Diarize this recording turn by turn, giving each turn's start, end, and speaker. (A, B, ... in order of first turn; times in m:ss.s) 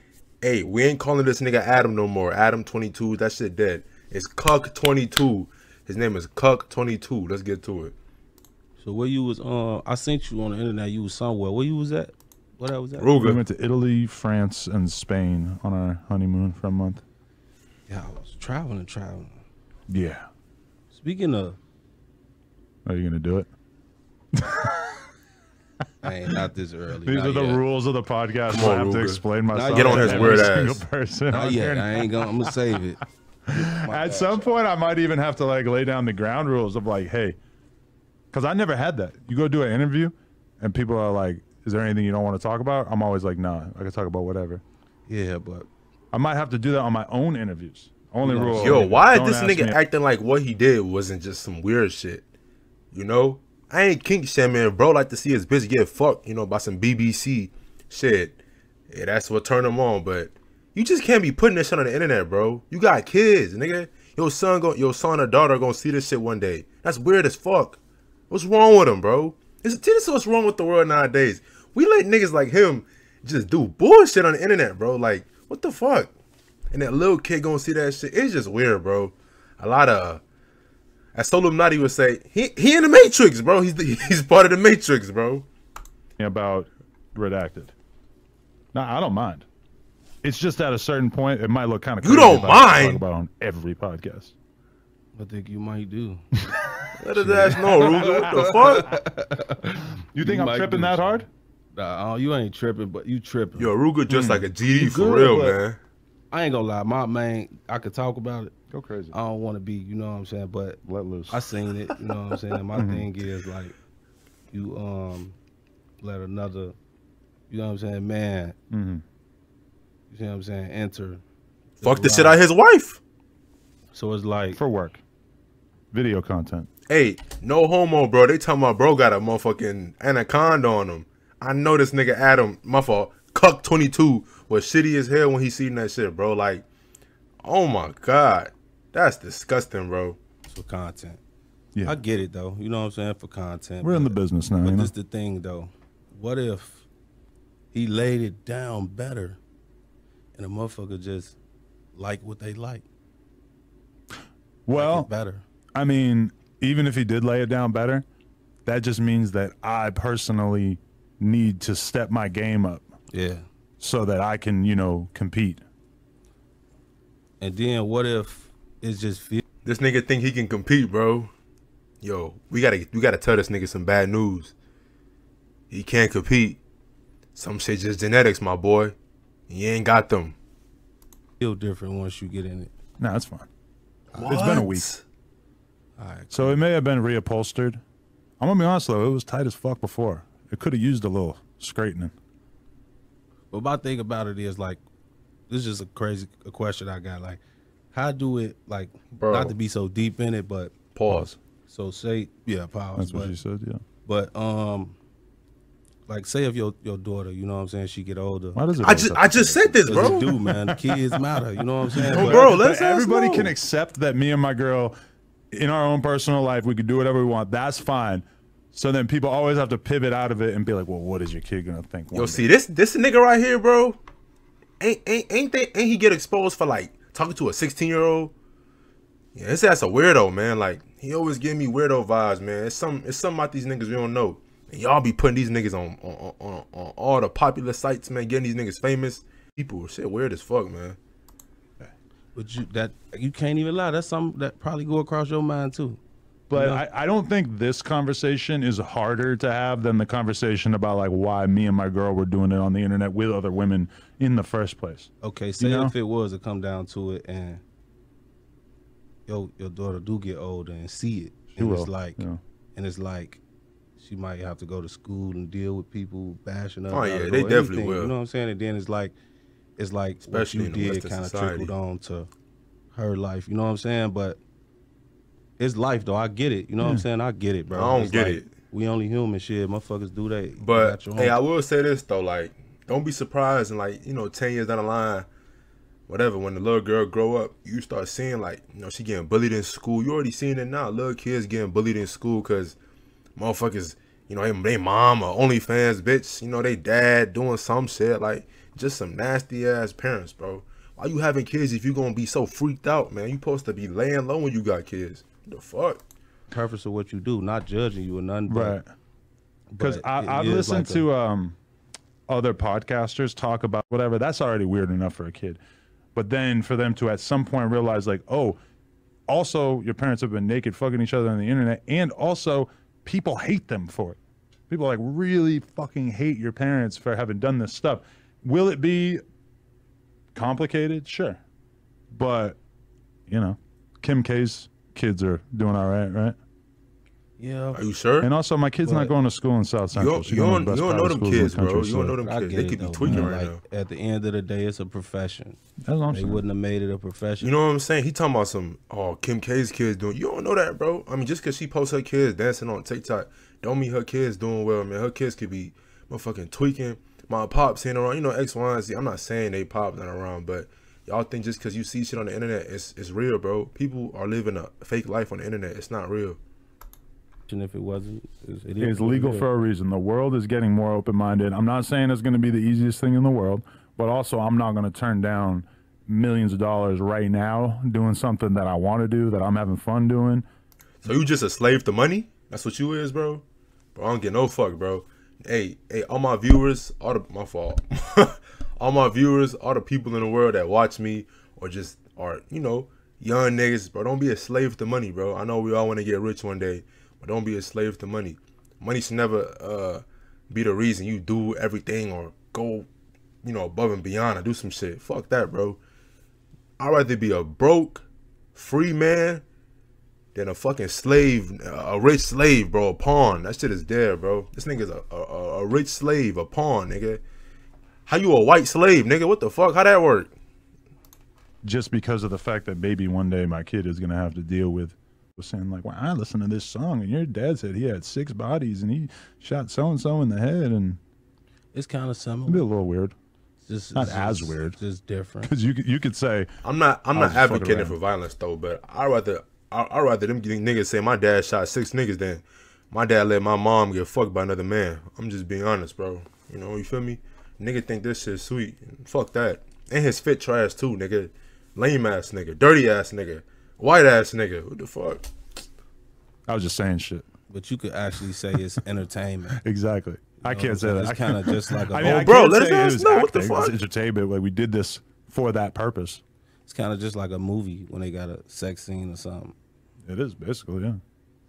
0:00.4-0:07.9 A
0:08.8-0:13.1 B
0:13.0-0:13.4 A
0:13.2-0:17.0 C
0:17.9-0:19.4 B
0:19.9-0:20.3 C
0:20.9-0:21.6 B
0:22.8-0:23.5 C
0:24.4-0:24.8 C
0:26.0-0:27.6 B
0:27.0-0:32.4 C
0:28.5-0:30.8 A
0:29.5-0:30.6 B
0:31.3-0:34.5 B
0:33.6-0:37.4 C
0:38.3-0:44.6 C
0:45.1-0:45.7 B
0:46.1-0:49.8 C
0:48.2-0:49.0 B
0:48.6-0:52.2 A
0:52.9-0:58.4 A
0:58.9-1:16.1 A
1:16.7-1:20.2 A
1:21.1-1:25.5 A
1:26.2-1:27.7 C
1:28.7-1:29.5 C
1:30.2-1:34.3 C
1:32.0-1:33.0 A
1:35.1-1:36.2 B
1:37.0-1:38.9 A
1:37.1-1:43.8 B
1:37.8-1:38.8 C
1:40.0-1:41.3 C
1:43.6-1:45.8 A
1:44.1-1:45.0 C
1:44.7-1:45.6 B
1:46.3-1:48.5 B
1:48.7-1:49.1 C
1:49.1-1:53.7 B
1:50.8-1:51.4 C
1:52.7-1:53.1 C
1:54.5-1:55.4 B
1:56.0-1:56.8 B
1:57.5-1:58.6 B
1:58.7-1:59.0 C
2:00.1-2:01.2 B
2:01.8-2:02.4 B
2:01.8-2:03.0 A
2:03.9-2:04.6 B
2:04.6-2:05.0 C
2:05.9-2:06.7 C
2:06.9-2:16.6 A
2:17.4-2:20.2 A
2:20.5-2:21.2 B
2:21.8-2:26.8 B
2:23.8-2:24.9 C
2:27.7-2:29.4 B
2:30.3-2:31.4 B
2:31.9-2:32.8 B
2:34.6-2:35.1 C
2:34.7-2:35.4 B
2:35.7-2:38.0 C
2:38.6-2:42.9 C
2:43.1-2:43.4 B
2:43.8-2:45.6 C
2:47.4-2:49.4 B
2:49.6-2:51.3 A
2:52.0-2:54.5 A
2:55.7-2:56.6 A
2:57.3-2:58.9 A
2:59.5-3:00.4 A
3:01.4-3:02.7 B
3:03.0-3:03.5 C
3:04.1-3:05.0 A
3:04.2-3:04.9 C
3:06.0-3:06.6 B
3:06.3-3:07.8 C
3:08.4-3:12.1 C
3:13.5-3:14.8 B
3:15.5-3:17.4 B
3:17.9-3:20.7 B
3:19.1-3:19.6 A
3:20.9-3:21.4 A
3:21.7-3:23.4 B
3:23.0-3:23.8 C
3:24.0-3:25.0 B
3:26.1-3:28.7 B
3:28.5-3:30.8 C
3:28.8-3:30.3 A
3:29.9-3:32.6 B
3:31.9-3:34.9 C
3:32.1-3:33.5 A
3:35.5-3:42.5 C
3:42.1-3:44.0 A
3:44.8-3:48.3 A
3:49.3-4:01.0 A
4:02.3-4:06.0 B
4:06.5-4:15.9 C
4:06.5-4:06.8 B
4:15.2-4:17.6 B
4:19.3-4:22.2 B
4:21.6-4:22.4 C
4:22.8-4:23.4 B
4:24.0-4:29.1 B
4:26.9-4:28.1 A
4:29.8-4:32.3 B
4:30.3-4:31.7 A
4:32.9-4:34.4 B
4:35.6-4:41.4 B
4:36.8-4:37.0 C
4:37.7-4:38.5 A
4:40.6-4:45.2 A
4:46.1-4:52.8 A
4:53.4-5:06.0 A
5:06.5-5:08.8 B
5:08.5-5:08.9 C
5:09.7-5:11.1 B
5:09.8-5:11.6 C
5:12.3-5:15.6 C
5:16.1-5:18.6 C
5:19.3-5:29.2 C
5:30.3-5:31.4 C
5:32.1-5:32.6 C
5:33.3-5:36.4 C
5:37.4-5:37.8 B
5:37.7-5:38.3 A
5:38.2-5:42.2 C
5:38.8-5:39.1 B
5:39.9-5:43.6 A
5:42.2-5:45.6 B
5:43.0-5:43.3 C
5:45.8-5:46.4 C
5:46.1-5:47.5 B
5:47.4-6:06.4 A
6:07.5-6:09.5 B
6:08.8-6:20.4 C
6:21.0-6:23.4 A
6:23.9-6:42.9 A
6:43.4-6:45.8 A
6:46.8-6:49.4 A
6:50.3-6:57.2 A
6:58.0-7:00.3 A
7:01.6-7:11.0 C
7:11.7-7:12.7 B
7:12.5-7:13.1 C
7:13.6-7:15.5 B
7:13.9-7:14.8 C
7:15.4-7:16.5 C
7:16.6-7:35.3 A
7:17.1-7:17.9 C
7:36.5-7:37.3 C
7:37.5-7:39.6 B
7:39.6-7:46.2 C
7:40.4-7:42.3 B
7:42.0-7:43.8 A
7:46.7-7:49.5 B
7:50.1-7:51.0 C